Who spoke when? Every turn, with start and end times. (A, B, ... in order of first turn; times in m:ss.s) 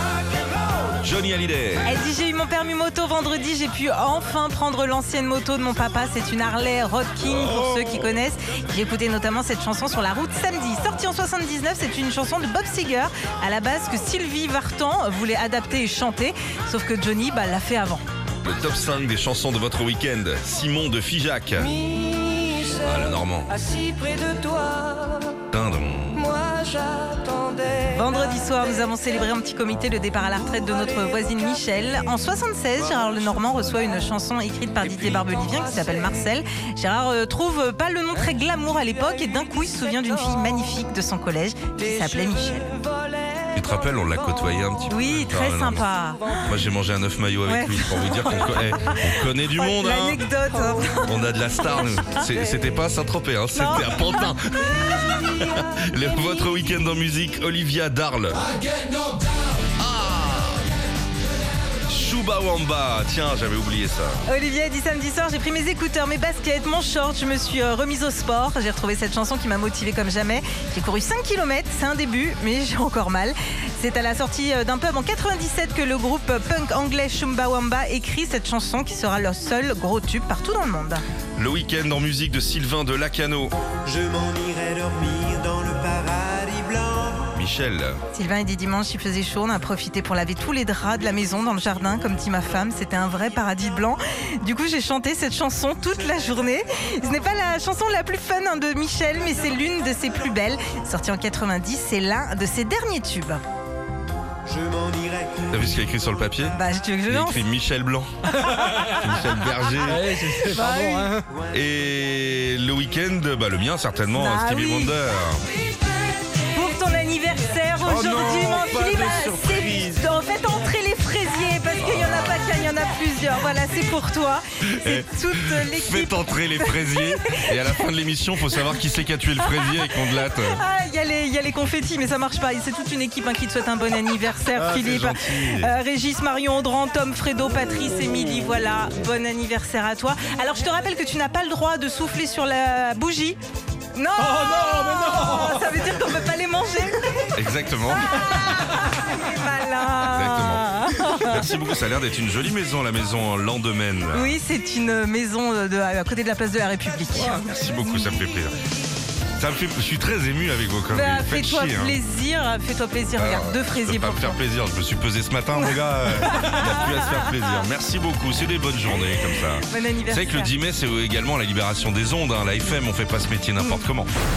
0:01.0-0:02.0 A
0:01.8-0:18.0 B
0:18.4-0:21.8 A
0:21.8-0:22.7 C
0:22.8-0:23.5 A
0:23.6-0:25.4 C
0:25.5-0:26.3 A
0:26.2-0:27.8 C
0:27.8-0:42.7 B
0:43.0-0:43.4 C
0:43.5-0:45.9 A
0:44.9-0:46.5 B
0:46.5-0:50.2 A
0:47.4-0:52.2 B
0:51.0-0:58.4 A
0:53.5-0:55.6 B
0:59.8-1:00.6 A
1:01.9-1:04.2 A
1:04.3-1:21.0 B
1:21.4-1:23.5 A
1:23.8-1:27.3 D
1:27.3-1:28.0 A
1:28.1-1:43.4 B
1:44.5-1:45.5 D
1:45.5-1:46.6 A
1:46.5-1:47.4 B
1:47.1-1:48.1 A
1:48.5-1:48.9 B
1:48.7-1:50.6 A
1:49.8-1:51.2 B
1:50.7-1:51.2 C
1:51.5-1:55.4 A
1:54.1-1:55.0 B
1:56.4-2:07.7 B
1:57.9-1:59.8 A
2:01.8-2:02.4 A
2:04.8-2:10.6 A
2:09.4-2:23.4 B
2:14.5-2:15.7 A
2:23.9-2:27.3 B
2:27.3-2:28.2 A
2:28.0-2:31.6 B
2:30.1-2:34.4 A
2:34.1-2:38.1 B
2:37.1-2:38.6 A
2:39.4-2:42.0 A
2:40.9-2:44.4 B
2:43.2-2:54.1 A
2:45.5-2:47.4 B
2:49.7-2:50.5 B
2:53.6-2:53.8 B